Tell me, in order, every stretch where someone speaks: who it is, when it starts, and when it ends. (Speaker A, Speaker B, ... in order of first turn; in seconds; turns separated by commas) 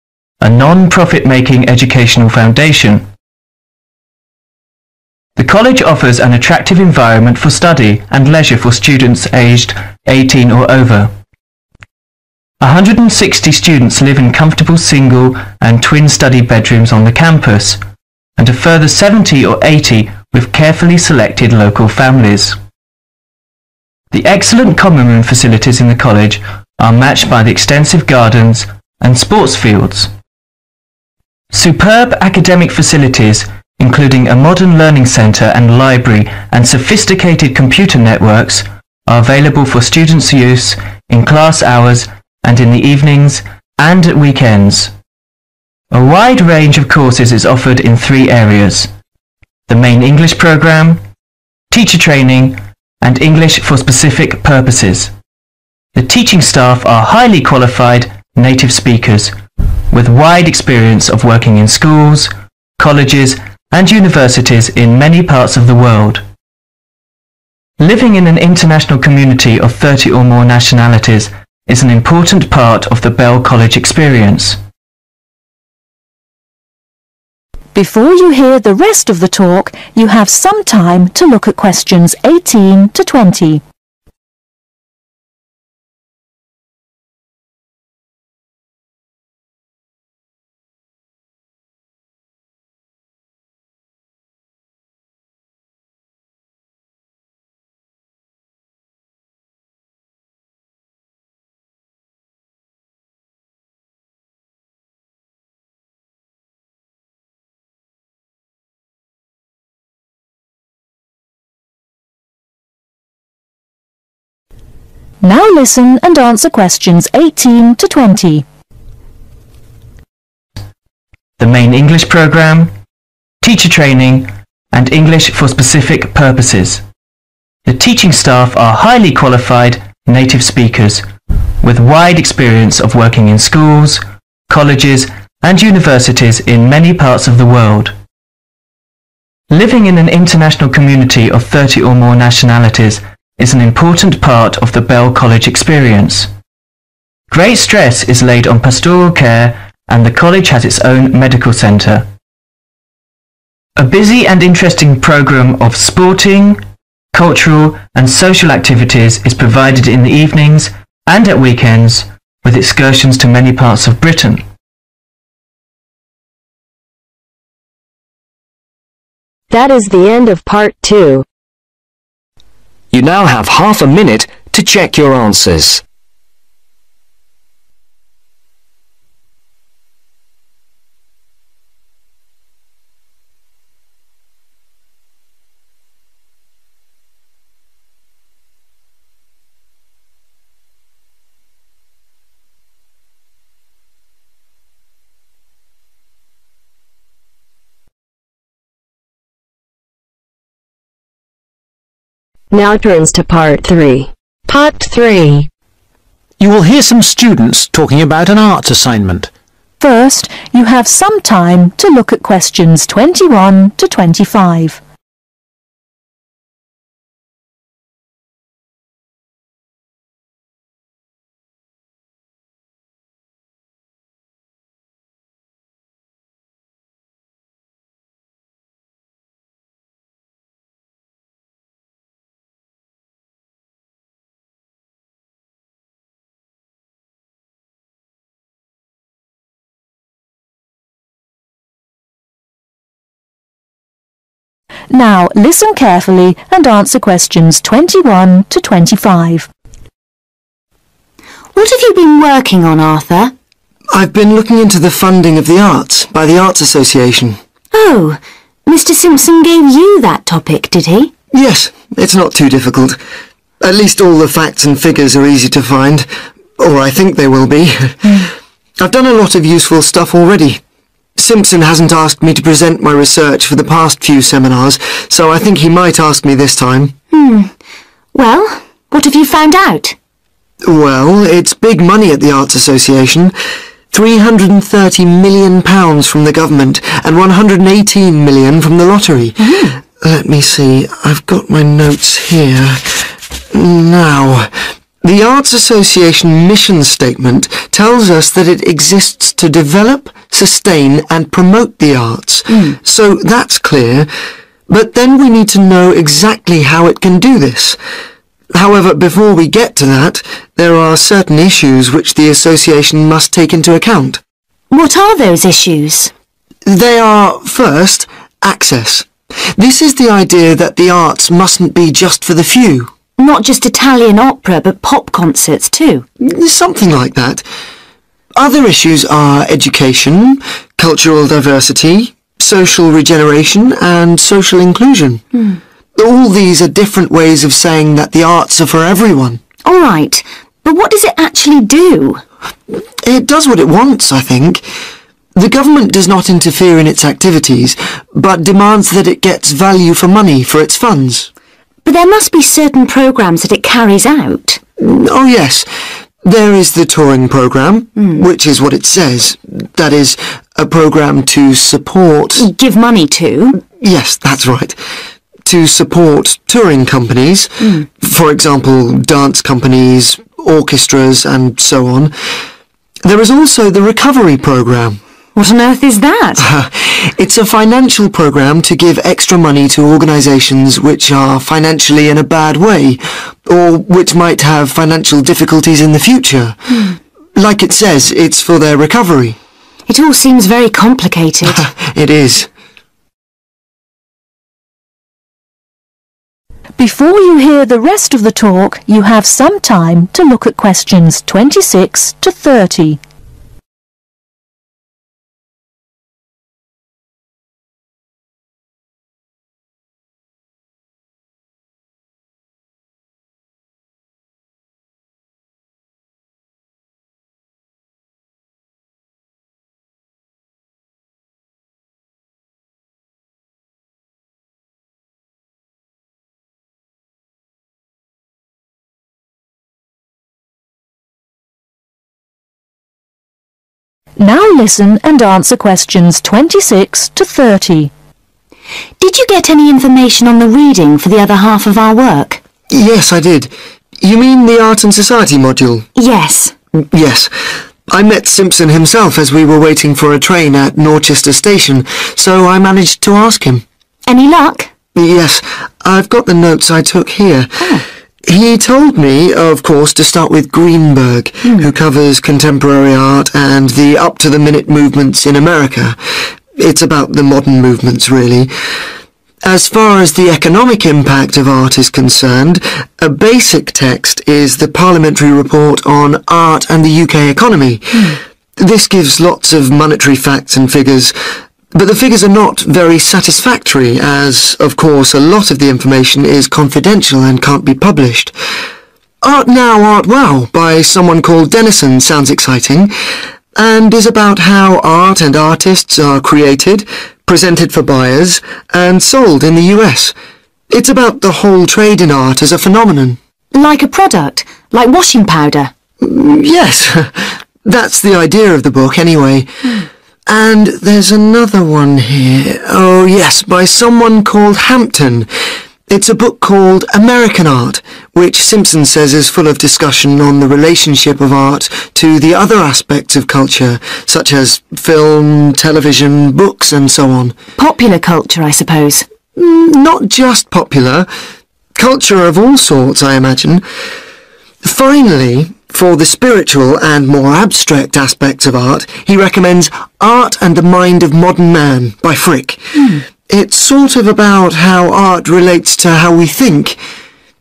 Speaker A: 0.4-3.0, Speaker A: 5.4-11.1, Speaker A: 12.6-17.8, Speaker A: 18.4-22.6, Speaker A: 24.1-30.1, Speaker A: 31.5-44.9, Speaker A: 45.9-48.9, Speaker A: 49.7-51.0, Speaker A: 51.7-55.1, Speaker A: 55.9-59.3, Speaker A: 59.9-66.2, Speaker A: 67.8-74.6, Speaker B: 77.7-83.6, Speaker B: 115.2-118.4, Speaker A: 121.4-122.7, Speaker A: 123.4-126.8, Speaker A: 127.7-131.0, Speaker A: 131.6-137.9, Speaker A: 139.5-146.3, Speaker A: 147.3-152.1, Speaker A: 153.8-156.6, Speaker A: 157.1-164.4, Speaker C: 169.5-171.2, Speaker D: 172.9-175.8, Speaker C: 202.5-205.5, Speaker E: 206.4-209.3, Speaker B: 209.8-214.8, Speaker B: 244.9-249.5, Speaker F: 251.5-253.3, Speaker G: 253.9-257.4, Speaker F: 257.7-261.1, Speaker G: 261.3-263.0, Speaker G: 263.6-268.1, Speaker G: 268.8-270.6, Speaker G: 271.2-276.9, Speaker F: 277.1-277.5, Speaker F: 278.1-279.9, Speaker G: 280.6-283.3, Speaker G: 283.9-293.0, Speaker F: 289.4-289.7, Speaker G: 293.5-294.5, Speaker G: 295.0-304.1, Speaker F: 302.5-302.8, Speaker G: 304.7-307.8, Speaker G: 308.5-314.2, Speaker F: 314.7-316.1, Speaker G: 316.6-322.9, Speaker F: 323.2-326.0, Speaker G: 326.2-327.4, Speaker G: 328.4-335.2, Speaker G: 335.9-339.4, Speaker F: 339.6-342.2, Speaker G: 342.7-344.6, Speaker G: 345.4-351.3, Speaker F: 351.8-354.6, Speaker G: 354.8-355.7, Speaker G: 356.2-362.5, Speaker F: 357.9-358.2, Speaker F: 362.3-363.6, Speaker G: 363.6-364.8, Speaker G: 365.4-372.1, Speaker F: 367.6-367.9, Speaker G: 373.0-375.0, Speaker F: 375.3-376.5, Speaker G: 376.4-386.6, Speaker G: 387.4-389.4, Speaker F: 389.9-391.6, Speaker G: 391.4-392.5, Speaker B: 396.8-403.0, Speaker B: 434.2-437.9, Speaker F: 439.0-442.4, Speaker G: 442.7-445.9, Speaker F: 445.9-446.5, Speaker G: 446.8-447.3, Speaker G: 447.9-453.6, Speaker F: 454.1-454.7, Speaker G: 454.9-457.6, Speaker G: 458.2-465.9, Speaker F: 461.4-461.7, Speaker G: 466.6-468.5, Speaker G: 469.4-481.1, Speaker G: 481.7-488.3, Speaker G: 489.2-492.9, Speaker G: 493.6-500.1, Speaker G: 500.7-503.2, Speaker F: 503.5-505.7, Speaker G: 506.0-509.5, Speaker G: 510.3-515.3, Speaker G: 515.9-527.4, Speaker F: 527.6-529.0, Speaker G: 529.4-531.1, Speaker G: 531.8-533.6, Speaker G: 534.6-546.8, Speaker F: 542.7-543.0